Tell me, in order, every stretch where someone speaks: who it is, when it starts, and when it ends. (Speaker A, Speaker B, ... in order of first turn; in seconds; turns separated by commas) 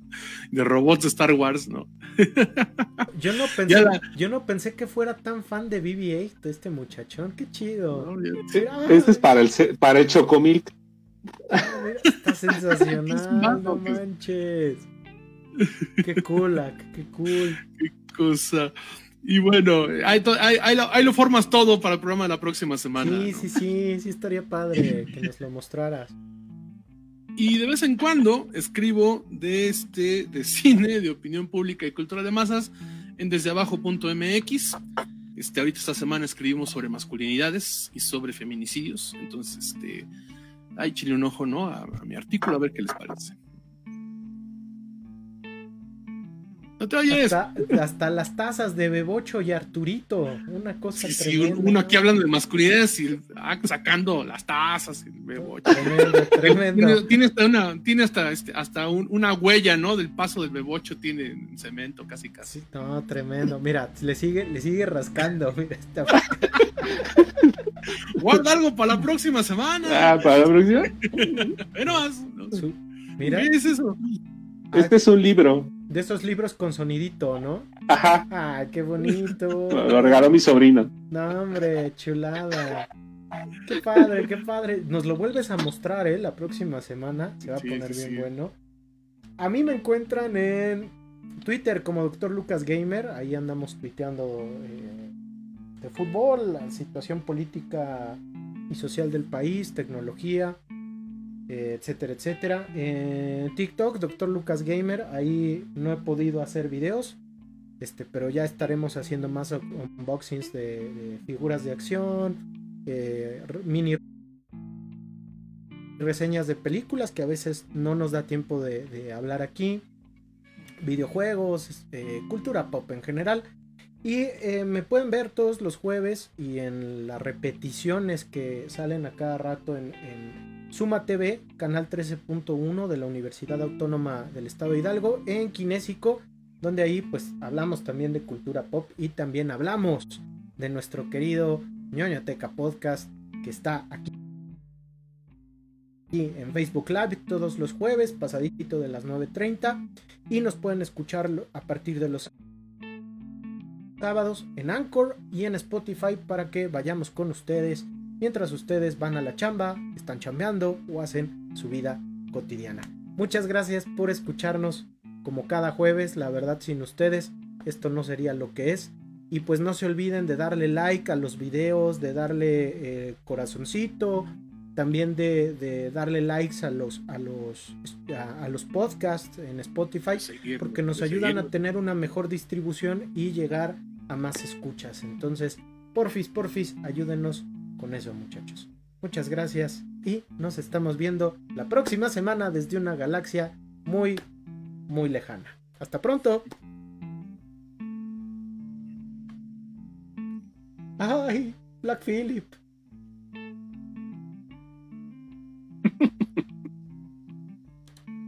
Speaker A: 0.5-3.0, Speaker B: 3.1-9.3, Speaker A: 3.7-4.0, Speaker A: 7.9-8.5, Speaker C: 8.5-10.7, Speaker B: 11.5-14.9, Speaker A: 12.8-14.0, Speaker A: 15.6-15.8, Speaker B: 16.0-17.6, Speaker A: 17.6-23.5, Speaker B: 22.9-26.1, Speaker A: 27.4-34.8, Speaker A: 35.3-40.1, Speaker A: 40.8-43.4, Speaker A: 46.8-47.5, Speaker B: 47.1-52.1, Speaker A: 51.0-62.5, Speaker B: 55.4-57.0, Speaker B: 62.4-67.2, Speaker A: 68.1-72.6, Speaker C: 69.9-71.0, Speaker B: 72.5-73.5, Speaker A: 73.2-74.0, Speaker C: 74.7-75.7, Speaker B: 75.8-77.7, Speaker C: 77.9-78.2, Speaker B: 78.3-80.2, Speaker C: 79.7-80.9, Speaker B: 81.1-82.9, Speaker B: 83.6-88.5, Speaker A: 87.5-88.3, Speaker B: 89.4-95.1, Speaker B: 95.8-100.6, Speaker B: 101.5-107.2, Speaker B: 107.8-114.0, Speaker B: 116.0-119.8, Speaker B: 120.8-123.4, Speaker B: 124.0-144.1, Speaker B: 146.1-152.3, Speaker B: 154.0-194.2, Speaker A: 180.2-181.5, Speaker B: 194.9-196.4, Speaker B: 201.0-202.6